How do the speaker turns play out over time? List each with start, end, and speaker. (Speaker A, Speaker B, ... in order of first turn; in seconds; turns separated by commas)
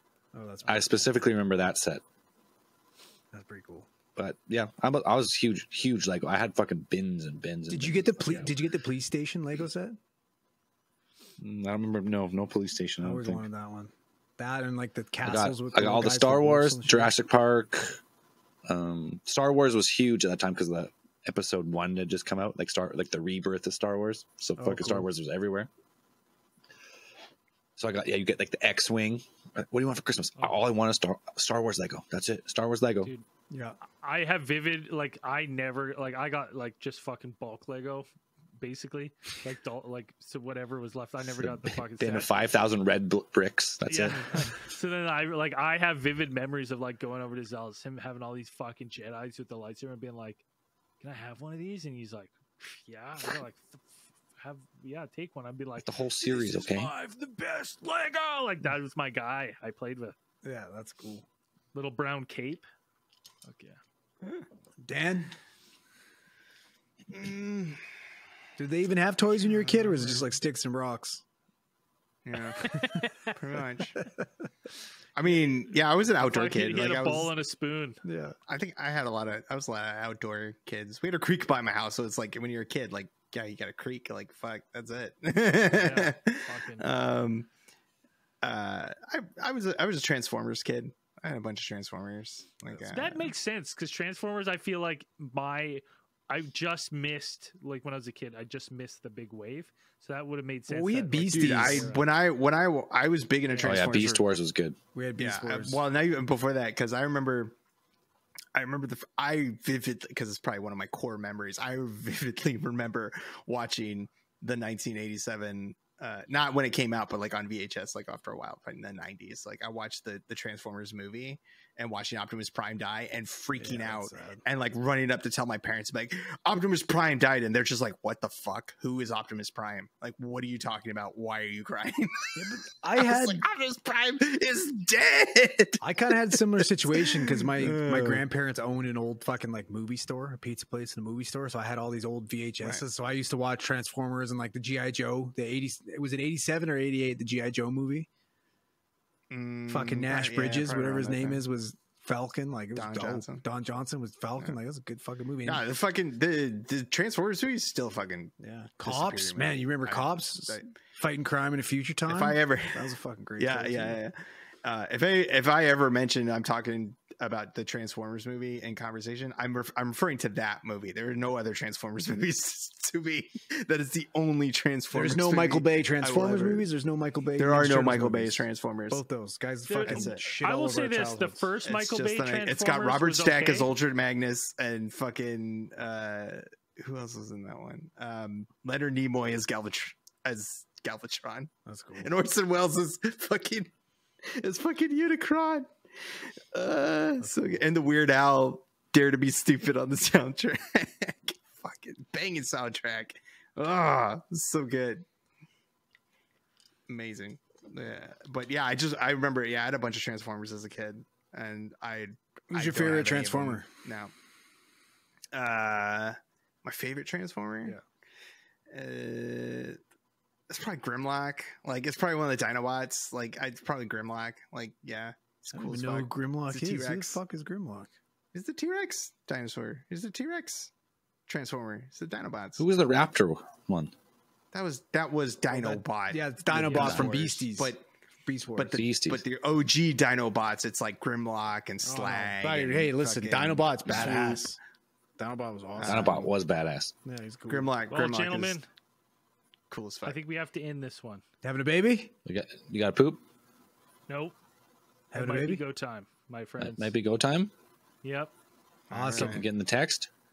Speaker A: 0.3-1.1, Speaker B: 0.6-2.0, Speaker A: 3.3-3.9, Speaker B: 4.1-8.5, Speaker A: 7.7-10.0, Speaker B: 11.4-13.5, Speaker A: 13.0-17.1, Speaker B: 15.2-18.0, Speaker B: 18.7-25.7, Speaker A: 24.6-25.1, Speaker B: 27.8-33.1, Speaker A: 33.5-33.8, Speaker C: 33.9-42.3, Speaker B: 41.3-44.6, Speaker C: 43.9-50.4, Speaker C: 51.0-53.8, Speaker C: 54.4-60.1, Speaker B: 55.8-56.9, Speaker A: 60.4-61.2, Speaker C: 61.7-62.6, Speaker C: 63.4-63.8, Speaker A: 64.8-65.3, Speaker D: 67.1-67.8, Speaker A: 68.6-71.2, Speaker D: 72.2-72.7, Speaker C: 72.6-73.3, Speaker D: 73.3-74.0, Speaker D: 75.2-77.3, Speaker C: 76.2-78.0, Speaker A: 78.0-78.3, Speaker D: 78.5-87.5, Speaker C: 85.7-86.8, Speaker D: 88.4-93.3, Speaker C: 92.8-102.1, Speaker A: 100.7-101.9, Speaker D: 101.2-104.3, Speaker B: 103.6-104.8, Speaker A: 104.9-105.8, Speaker D: 105.2-107.5, Speaker D: 108.5-132.4, Speaker A: 123.5-124.4, Speaker A: 132.3-133.4, Speaker D: 132.9-136.4, Speaker A: 135.8-148.1, Speaker D: 136.9-138.2, Speaker D: 149.3-151.4, Speaker A: 149.7-155.6, Speaker D: 152.7-153.4, Speaker D: 155.4-160.7, Speaker A: 158.4-164.0, Speaker D: 162.1-176.7, Speaker A: 174.9-181.5, Speaker D: 177.4-179.0, Speaker C: 179.7-183.7, Speaker D: 179.7-180.2, Speaker D: 181.6-193.7, Speaker A: 191.7-192.1, Speaker D: 194.2-205.0, Speaker A: 197.2-197.6, Speaker D: 206.9-214.1, Speaker A: 212.5-213.7, Speaker D: 215.3-217.8, Speaker D: 218.7-219.8, Speaker D: 220.5-227.2, Speaker A: 225.5-227.9, Speaker D: 228.3-230.7, Speaker D: 231.3-232.7, Speaker B: 232.6-233.9, Speaker D: 234.5-237.8, Speaker A: 235.5-237.7, Speaker C: 236.7-237.0, Speaker B: 236.8-237.1, Speaker A: 238.2-238.7, Speaker D: 238.6-244.5, Speaker B: 238.7-239.2, Speaker A: 241.8-244.6, Speaker A: 245.2-246.3, Speaker D: 245.8-246.2, Speaker B: 245.8-246.9, Speaker A: 247.0-247.7, Speaker D: 247.5-248.6, Speaker C: 247.9-248.7, Speaker D: 249.7-250.2, Speaker C: 250.0-251.2, Speaker A: 251.4-252.1, Speaker B: 252.2-253.2, Speaker C: 254.1-254.3, Speaker A: 255.1-255.6, Speaker C: 255.1-256.9, Speaker B: 256.6-257.5, Speaker C: 258.0-258.3, Speaker D: 258.9-259.5, Speaker A: 258.9-259.4, Speaker B: 259.1-260.1